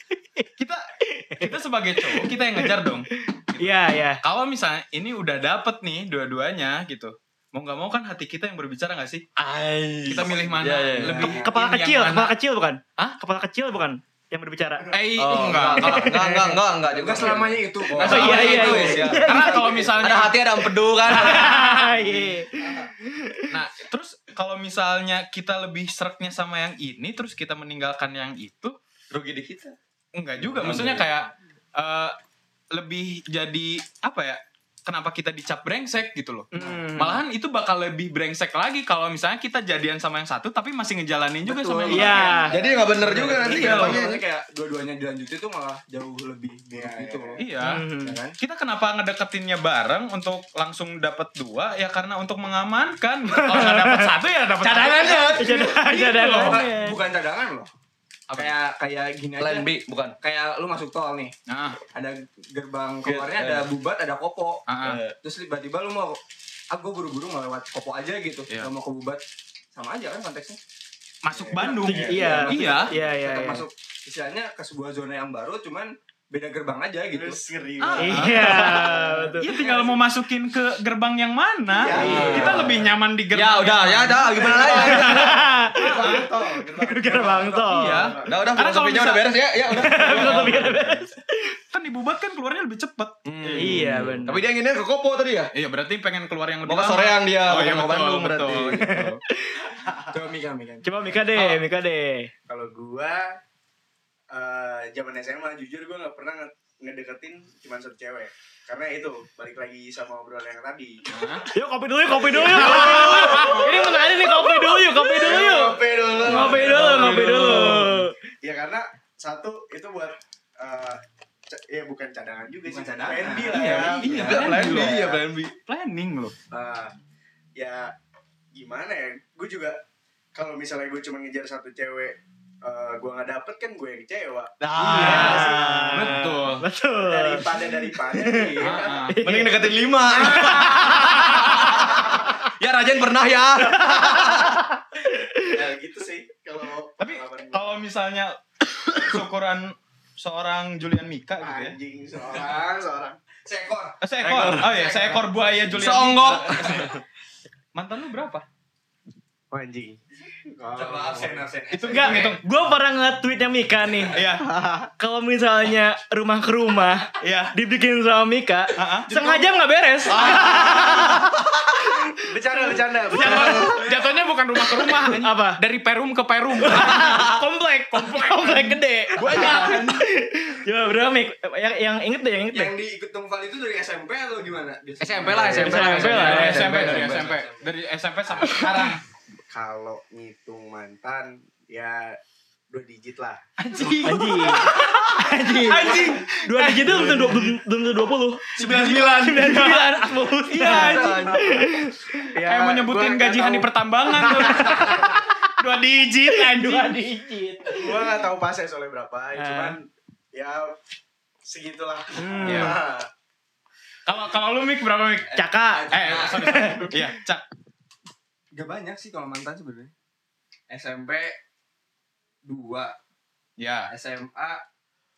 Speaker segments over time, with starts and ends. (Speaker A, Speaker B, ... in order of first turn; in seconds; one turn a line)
Speaker A: 0.6-0.8
Speaker B: 1.1-2.8
Speaker A: 1.4-9.3
Speaker B: 3.6-4.2
Speaker C: 9.4-11.4
Speaker A: 10.1-12.3
Speaker B: 11.3-14.9
Speaker A: 14.9-16.3
Speaker C: 15.2-18.8
Speaker B: 15.8-16.0
Speaker D: 16.9-19.9
Speaker B: 18.0-19.9
Speaker A: 18.0-22.0
Speaker C: 20.0-21.5
Speaker B: 21.1-23.5
Speaker D: 22.0-22.9
Speaker A: 23.5-28.8
Speaker C: 29.1-29.7
Speaker A: 30.1-32.1
Speaker C: 30.6-31.0
Speaker A: 32.7-42.4
Speaker B: 36.5-37.2
Speaker D: 41.5-47.4
Speaker B: 41.9-42.5
Speaker E: 42.5-44.0
Speaker C: 42.5-44.2
Speaker A: 43.2-44.0
Speaker E: 46.7-47.4
Speaker A: 47.4-47.8
Speaker B: 47.6-48.2
Speaker D: 48.0-48.4
Speaker A: 48.4-56.6
Speaker B: 53.3-54.1
Speaker D: 54.6-57.7
Speaker B: 55.0-57.0
Speaker A: 58.3-58.5
Speaker D: 58.3-61.3
Speaker C: 59.4-60.2
Speaker A: 61.5-61.8
Speaker D: 61.9-64.6
Speaker A: 63.0-63.6
Speaker A: 64.7-65.0
Speaker C: 64.9-65.1
Speaker D: 65.2-66.2
Speaker D: 66.7-69.2
Speaker D: 69.7-70.6
Speaker A: 71.2-72.9
Speaker E: 71.3-72.5
Speaker B: 71.8-73.7
Speaker D: 72.3-77.4
Speaker E: 77.1-79.4
Speaker A: 77.8-86.3
Speaker B: 78.0-79.8
Speaker E: 81.8-82.9
Speaker C: 81.8-82.8
Speaker D: 82.0-82.5
Speaker C: 83.3-85.5
Speaker E: 84.4-84.9
Speaker B: 84.8-86.1
Speaker E: 85.7-88.3
Speaker B: 86.8-88.1
Speaker A: 87.7-91.0
Speaker C: 88.2-90.6
Speaker B: 89.8-91.3
Speaker A: 91.7-93.9
Speaker C: 93.2-95.5
Speaker B: 93.6-94.4
Speaker A: 95.5-99.2
Speaker C: 96.6-99.0
Speaker B: 98.7-99.6
Speaker D: 100.1-100.9
Speaker B: 100.8-102.3
Speaker E: 102.5-103.3
Speaker E: 104.3-111.0
Speaker A: 111.1-111.5
Speaker B: 111.5-118.1
Speaker E: 112.1-117.9
Speaker A: 112.6-113.6
Speaker A: 116.3-118.0
Speaker E: 118.4-125.2
Speaker D: 122.7-125.0
Speaker A: 123.7-126.3
Speaker E: 126.5-126.9
Speaker E: 127.6-127.9
Speaker E: 128.5-129.8
Speaker E: 130.3-135.9
Speaker C: 134.6-135.3
Speaker A: 134.8-136.6
Speaker B: 134.8-138.5
Speaker E: 137.0-139.1
Speaker A: 138.6-139.3
Speaker B: 139.1-141.7
Speaker C: 139.2-144.5
Speaker B: 143.6-145.5
Speaker E: 145.4-147.8
Speaker A: 147.0-151.8
Speaker E: 151.4-153.2
Speaker D: 152.3-152.6
Speaker D: 153.4-157.0
Speaker A: 154.0-156.9
Speaker C: 156.0-156.5
Speaker A: 157.8-158.4
Speaker E: 159.5-161.5
Speaker D: 160.7-162.4
Speaker A: 161.7-162.4
Speaker B: 161.9-164.2
Speaker A: 164.1-164.5
Speaker E: 164.5-164.9
Speaker B: 165.0-171.3
Speaker A: 167.2-167.5
Speaker A: 168.8-169.1
Speaker D: 169.1-169.5
Speaker A: 170.1-171.3
Speaker E: 172.2-173.8
Speaker B: 173.1-173.7
Speaker A: 173.2-180.0
Speaker B: 174.7-175.6
Speaker B: 176.6-182.7
Speaker D: 179.2-179.9
Speaker D: 182.5-187.7
Speaker C: 185.0-187.3
Speaker B: 185.5-186.8
Speaker A: 186.0-189.0
Speaker E: 189.5-192.2
Speaker E: 192.7-193.4
Speaker A: 193.6-195.0
Speaker B: 194.0-202.2
Speaker A: 195.7-197.5
Speaker D: 198.6-199.9
Speaker A: 198.6-199.8
Speaker A: 200.5-201.4
Speaker D: 200.7-201.4
Speaker E: 202.3-203.7
Speaker A: 202.4-206.9
Speaker B: 204.1-208.1
Speaker E: 207.7-210.8
Speaker B: 209.4-209.8
Speaker E: 211.4-213.1
Speaker B: 212.2-212.8
Speaker A: 212.4-212.8
Speaker A: 214.1-215.3
Speaker D: 215.3-216.9
Speaker B: 215.3-217.0
Speaker A: 215.9-217.4
Speaker D: 218.5-219.9
Speaker D: 220.7-221.4
Speaker D: 222.4-223.0
Speaker A: 223.6-223.9
Speaker D: 223.9-224.6